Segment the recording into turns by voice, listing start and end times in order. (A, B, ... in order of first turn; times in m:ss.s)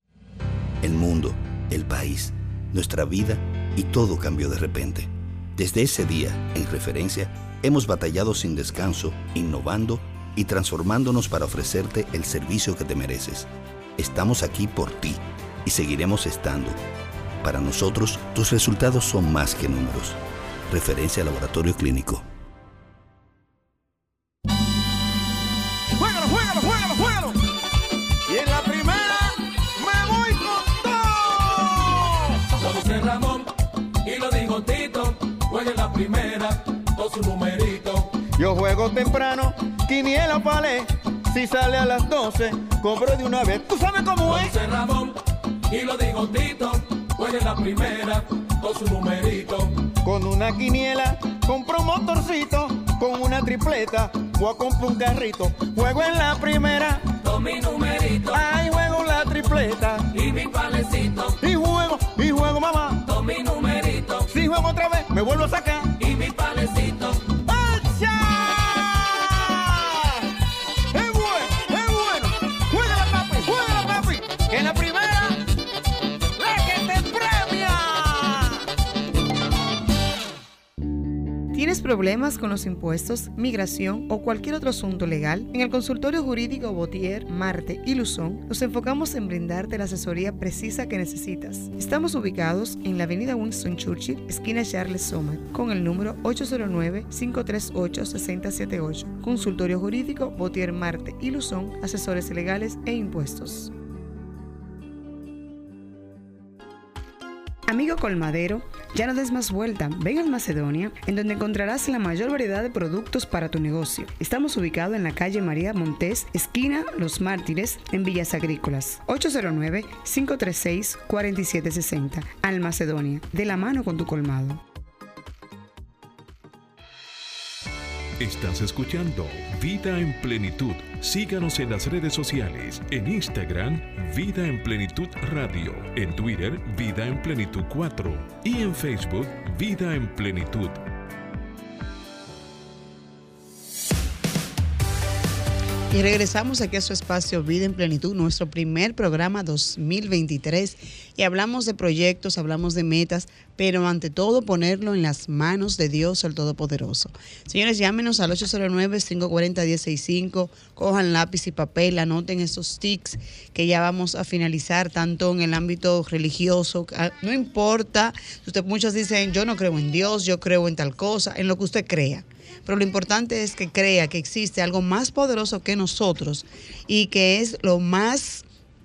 0:00.8-0:16.8 A
0:17.4-0:22.3 A
0:26.0-0:27.4 B
0:28.3-0:32.4 B
0:32.6-0:33.5 C
0:34.0-0:38.1 C
0:38.4-0:44.5 B
0:44.2-0:45.2 C
0:45.7-0:49.9 C
0:50.0-0:57.0 B
0:57.2-0:58.4 C
0:58.3-1:00.1 B
1:00.1-1:01.4 C
1:01.4-1:03.0 B
1:03.0-1:04.3 C
1:04.3-1:05.9 B
1:06.0-1:07.3 C
1:07.4-1:10.2 B
1:10.9-1:15.4 B
1:16.4-1:18.6 B
1:21.5-1:43.7 D
1:47.7-2:04.6 D
2:08.2-2:20.8 E
2:25.9-2:58.4 F